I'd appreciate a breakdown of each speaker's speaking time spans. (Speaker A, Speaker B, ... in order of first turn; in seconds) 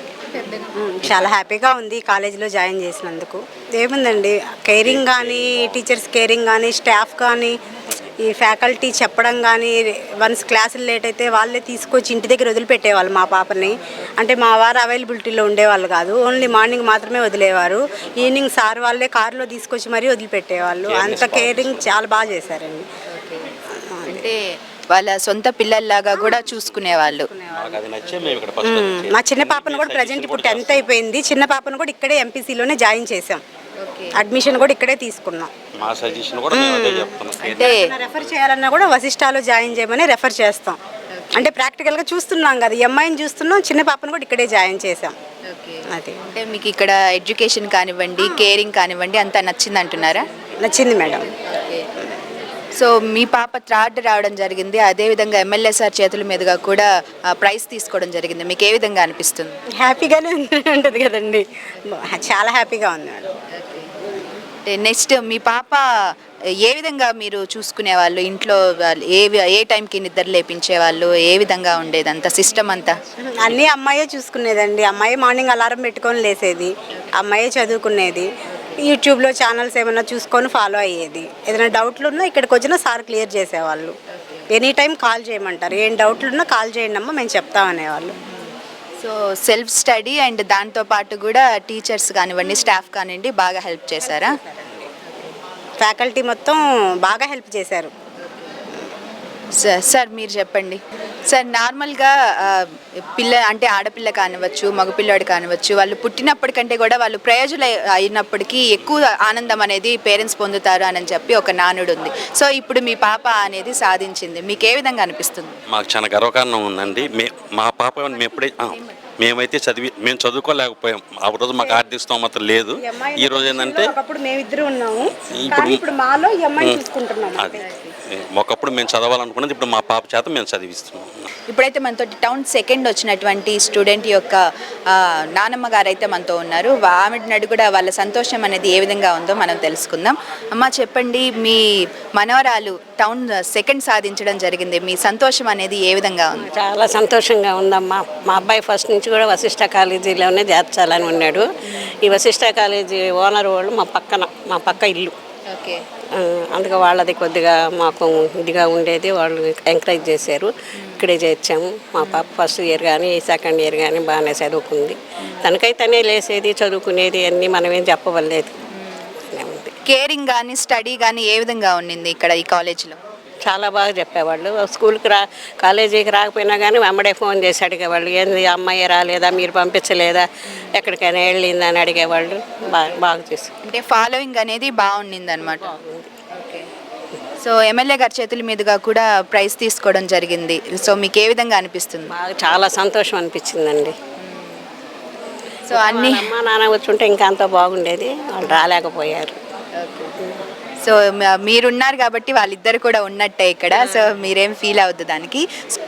Speaker A: 0.7-7.6, 8.2-22.9, 23.8-24.3, 26.1-26.4, 27.3-27.8, 28.6-33.4, 34.1-35.5, 36.5-40.8, 41.3-45.2, 45.9-46.2, 50.6-51.3, 59.8-63.3, 73.2-83.9, 84.5-88.1, 94.1-94.7, 95.8-97.9, 121.6-121.9, 122.7-127.9
Speaker B: 4.8-5.8, 20.8-21.9, 27.5-30.9, 35.8-38.3, 115.7-123.9, 125.2-125.8, 126.6-126.8, 128.1-131.2
Speaker C: 24.1-24.4, 24.9-27.3, 33.8-34.2, 37.5-37.9, 41.1-41.5, 45.5-50.2, 51.4-51.8, 52.8-59.6, 63.6-63.9, 64.7-65.8, 66.6-73.0, 89.0-94.4, 99.6-115.6, 131.5-141.6, 142.2-146.5, 155.5-155.8, 162.0-162.3, 169.9-173.0, 183.6-185.8, 186.4-186.7, 187.4-192.1, 194.2-194.6, 195.7-196.3, 199.8-200.1, 200.8-205.4
Speaker D: 146.6-151.4, 152.1-155.1, 156.2-168.5, 169.4-169.7, 173.4-183.5, 185.7-186.1, 192.2-193.9, 195.7-199.4